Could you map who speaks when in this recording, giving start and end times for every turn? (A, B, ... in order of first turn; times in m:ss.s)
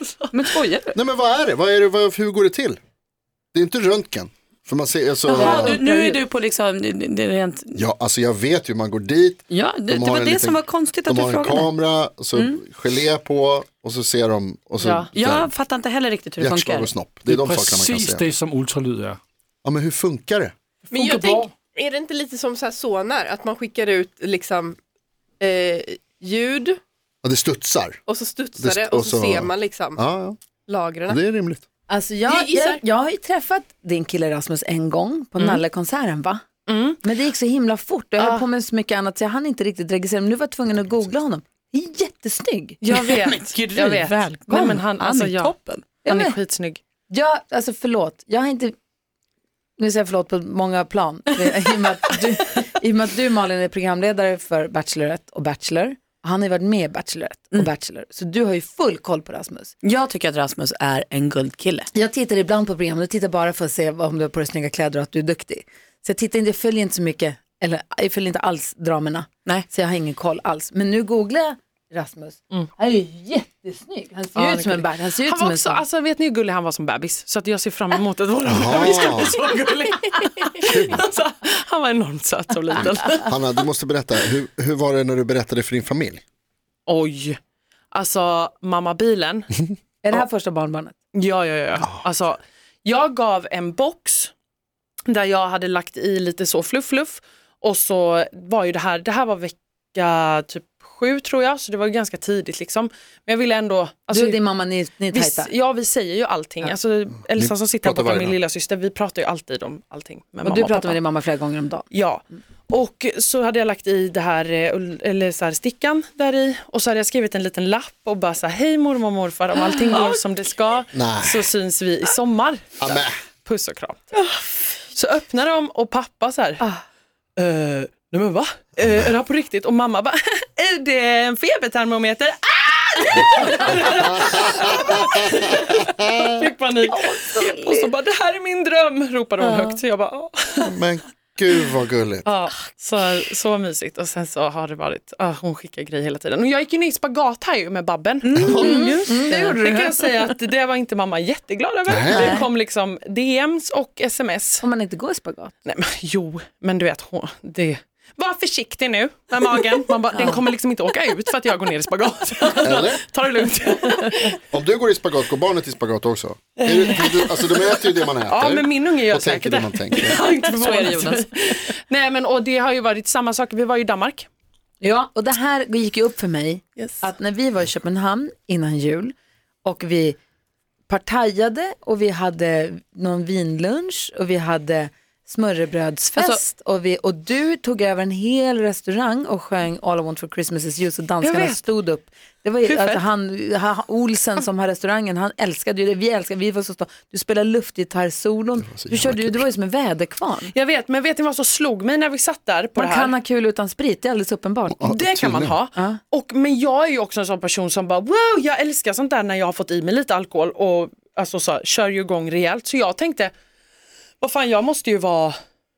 0:00.3-0:01.0 A
0:00.9-0:02.8 B
0:03.5-0:05.8 B
0:05.2-0:07.8 A
0:05.5-0:06.1 C
0:05.6-0:06.2 D
0:07.7-0:15.5 B
0:09.5-0:11.7 A
0:14.8-0:15.1 C
0:15.1-0:16.9 A
0:16.4-0:18.3 B
0:17.2-0:19.2 E
0:19.6-0:20.5 B
0:20.9-0:24.8 F
0:25.4-0:26.8 F
0:27.2-0:28.0 B
0:28.0-0:30.0 F
0:28.6-0:30.4 B
0:30.7-0:31.2 F
0:31.1-0:31.6 B
0:31.9-0:36.4 D
0:32.3-0:32.8 F
0:36.7-0:37.0 C
0:37.0-0:42.8 D
0:38.2-0:38.4 C
0:42.8-0:46.8 C
0:43.0-0:45.9 A
0:46.0-0:46.4 D
0:47.1-0:48.7 D
0:49.8-0:59.7 D
0:59.8-1:01.9 A
1:01.9-1:15.8 D
1:14.3-1:23.3 C
1:18.4-1:19.4 B
1:20.6-1:21.0 B
1:23.2-1:26.2 B
1:26.9-1:27.4 C
1:27.9-1:29.5 C
1:30.0-1:30.9 D
1:31.1-1:34.3 C
1:35.1-1:44.4 C
1:44.1-1:45.5 D
1:45.1-1:51.0 C
1:47.4-1:48.4 B
1:50.4-1:51.9 D
1:51.9-2:04.2 C
2:00.9-2:01.4 B
2:02.8-2:03.1 B
2:04.9-2:06.7 C
2:07.4-2:20.8 C
2:16.8-2:17.9 A
2:19.4-2:19.7 A
2:20.6-2:22.3 B
2:22.2-2:34.6 C
2:28.2-2:29.0 A
2:28.4-2:28.7 B
2:28.6-2:30.0 D
2:31.9-2:32.4 B
2:32.1-2:32.4 D
2:34.6-2:35.6 D
2:35.6-2:44.4 C
2:42.6-2:43.0 B
2:44.5-2:50.2 B
2:46.6-2:54.3 C
2:50.3-2:51.3 A
2:54.8-3:00.2 D
3:00.9-3:20.5 D
3:11.2-3:11.6 C
3:12.6-3:13.0 C
3:18.7-3:19.4 B
3:20.5-3:23.1 C
3:22.8-3:24.9 D
3:24.7-3:25.6 B
3:24.8-3:33.3 C
3:25.7-3:26.0 D
3:34.2-3:35.4 C